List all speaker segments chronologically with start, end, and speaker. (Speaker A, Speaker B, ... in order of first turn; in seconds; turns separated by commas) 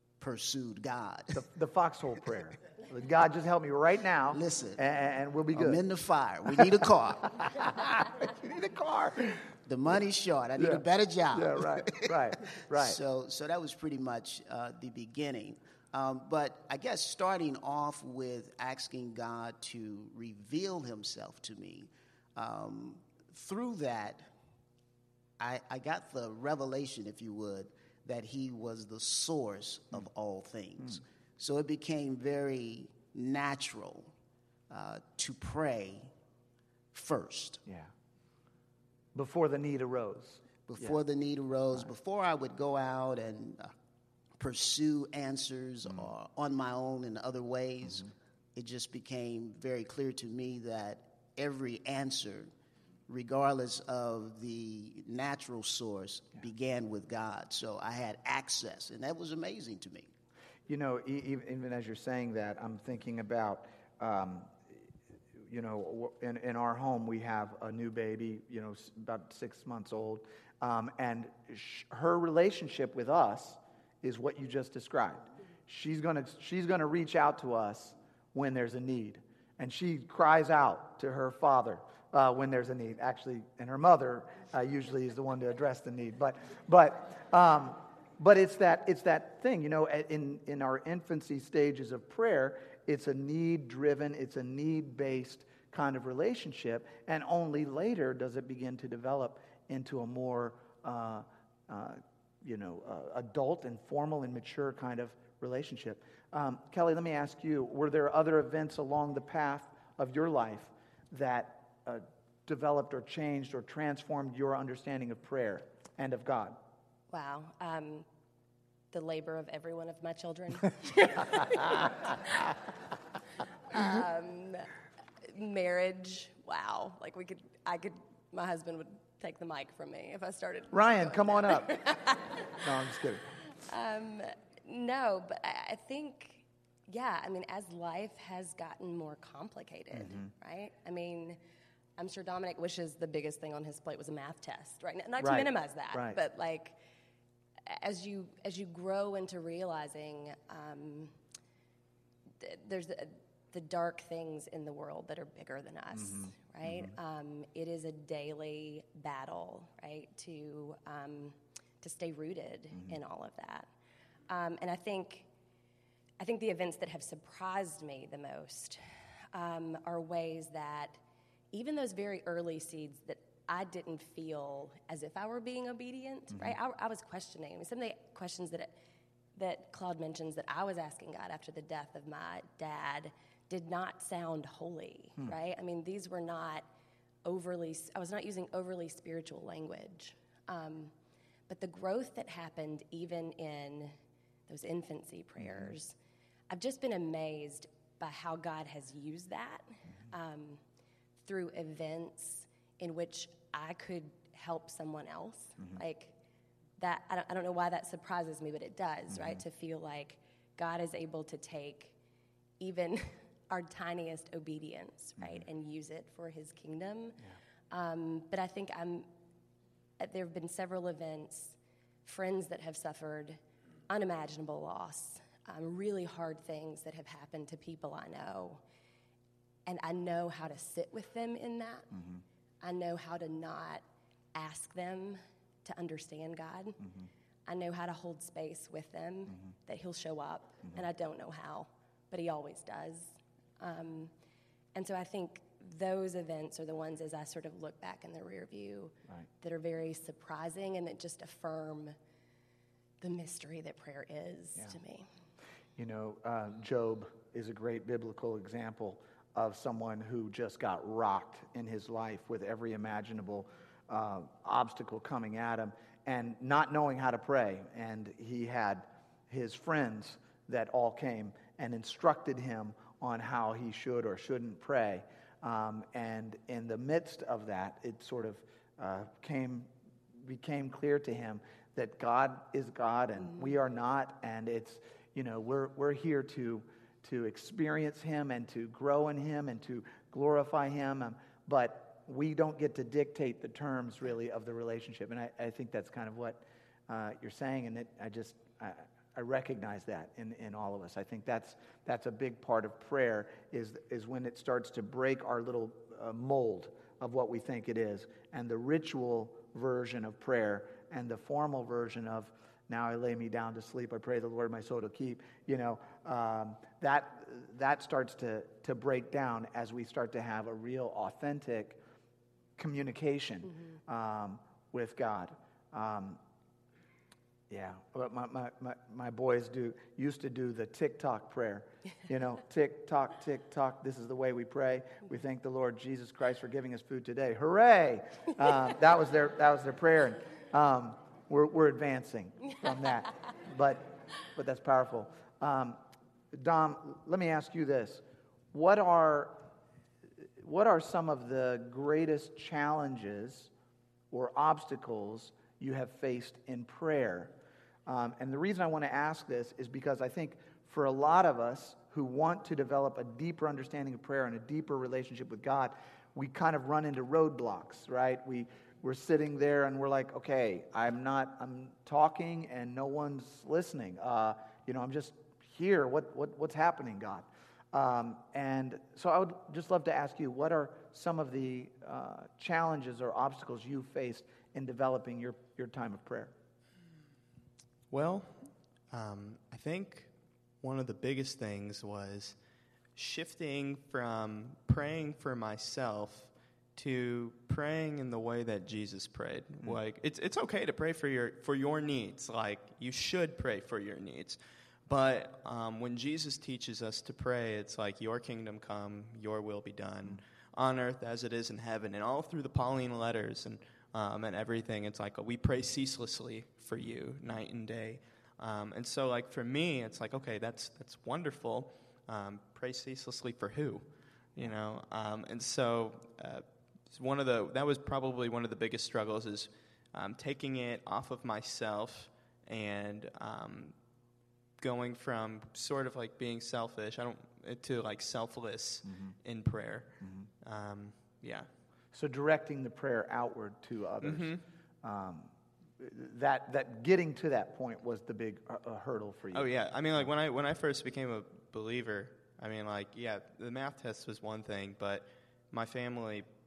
Speaker A: 0.2-1.4, Speaker B: 1.3-5.8, Speaker A: 4.3-4.8, Speaker A: 5.5-7.7, Speaker B: 6.5-6.8, Speaker B: 7.4-9.5, Speaker A: 9.7-24.3, Speaker B: 10.6-13.0, Speaker A: 25.4-34.1, Speaker A: 34.7-36.1, Speaker A: 36.9-37.6, Speaker B: 37.7-37.9, Speaker B: 39.1-41.0, Speaker A: 40.7-43.7, Speaker A: 44.4-52.5, Speaker A: 53.1-60.1, Speaker B: 60.7-64.7, Speaker B: 65.4-116.6, Speaker C: 117.1-118.1, Speaker C: 118.9-122.6, Speaker C: 123.7-124.7, Speaker C: 125.2-132.6, Speaker B: 130.7-131.8, Speaker B: 132.5-133.2, Speaker C: 133.6-141.4, Speaker B: 139.9-140.3, Speaker C: 142.0-146.8, Speaker B: 145.2-146.2, Speaker C: 147.7-151.2, Speaker C: 152.4-163.7, Speaker B: 156.0-156.9, Speaker C: 164.3-165.3, Speaker C: 166.2-171.0, Speaker C: 171.5-178.7, Speaker C: 179.4-186.7, Speaker C: 187.2-190.9, Speaker C: 191.5-194.0, Speaker C: 194.5-196.0, Speaker C: 196.5-200.6, Speaker C: 201.2-206.2, Speaker C: 206.8-211.9, Speaker C: 212.6-219.1, Speaker C: 220.0-228.6, Speaker C: 229.7-232.0, Speaker C: 232.6-233.8, Speaker C: 234.3-236.9, Speaker C: 237.5-244.1, Speaker C: 244.8-251.9, Speaker C: 253.0-255.1, Speaker B: 255.8-321.8, Speaker B: 322.6-326.2, Speaker B: 327.5-345.8, Speaker B: 346.3-349.4, Speaker B: 350.4-353.5, Speaker B: 354.1-357.4, Speaker B: 357.9-386.3, Speaker D: 387.9-390.1, Speaker D: 390.6-392.4, Speaker D: 393.0-423.9, Speaker D: 424.4-433.8, Speaker D: 434.6-441.5, Speaker B: 441.9-450.1, Speaker D: 444.0-444.4, Speaker D: 449.3-456.3